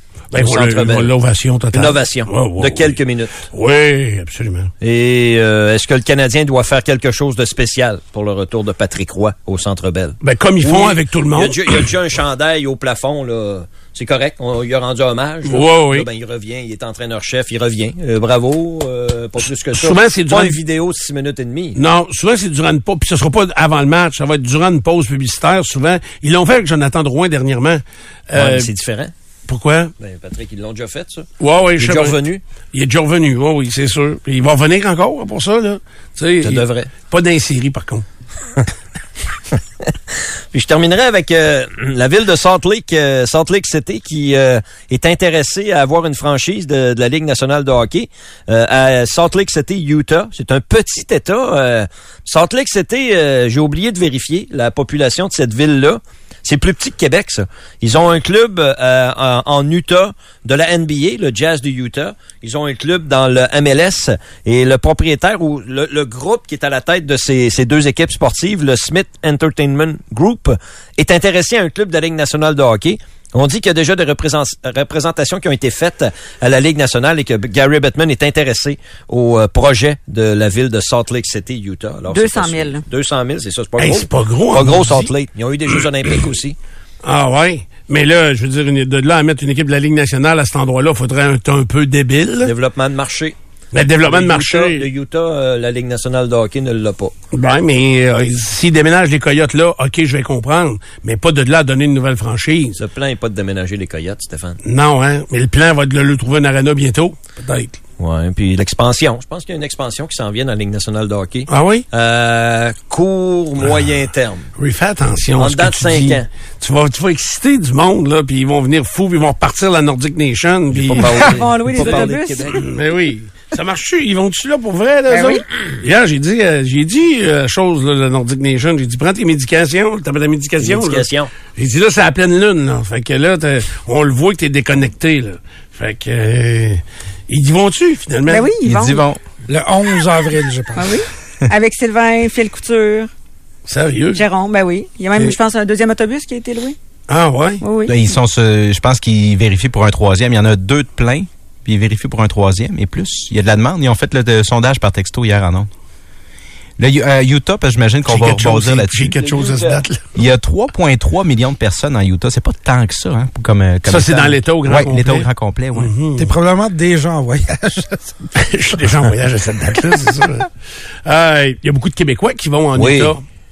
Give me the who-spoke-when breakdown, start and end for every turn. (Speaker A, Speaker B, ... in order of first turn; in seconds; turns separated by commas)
Speaker A: 0.3-4.7, Speaker B: 0.3-1.1, Speaker B: 1.7-3.4, Speaker B: 4.8-21.8, Speaker A: 10.2-11.9, Speaker A: 15.4-16.1, Speaker A: 19.7-20.6, Speaker A: 21.8-28.7, Speaker B: 28.3-29.1, Speaker A: 29.5-29.9, Speaker B: 30.0-32.4, Speaker A: 31.4-32.2, Speaker A: 32.7-38.0, Speaker B: 36.4-36.9, Speaker B: 40.5-86.6, Speaker C: 82.1-82.8, Speaker A: 83.8-85.1, Speaker A: 87.0-92.5, Speaker B: 92.4-93.3, Speaker A: 93.7-94.8, Speaker B: 94.0-97.1, Speaker A: 97.3-102.8, Speaker B: 102.8-104.6, Speaker A: 104.6-107.8, Speaker B: 108.0-114.5, Speaker A: 111.5-111.8, Speaker A: 114.6-138.5, Speaker B: 115.4-116.3, Speaker B: 120.7-122.6, Speaker C: 121.0-122.6, Speaker C: 125.1-125.4, Speaker B: 130.6-131.3, Speaker C: 138.3-139.0, Speaker D: 138.6-139.2, Speaker E: 139.5-141.0, Speaker C: 140.8-143.1, Speaker A: 143.7-144.2, Speaker C: 144.1-146.8, Speaker A: 147.1-147.6, Speaker C: 147.6-148.0, Speaker D: 147.8-155.7, Speaker D: 156.8-159.2, Speaker A: 158.1-160.0, Speaker B: 159.2-159.8, Speaker D: 160.1-165.9, Speaker A: 163.8-166.3, Speaker E: 166.2-168.3, Speaker A: 168.3-170.5, Speaker A: 171.0-173.2, Speaker B: 172.8-173.2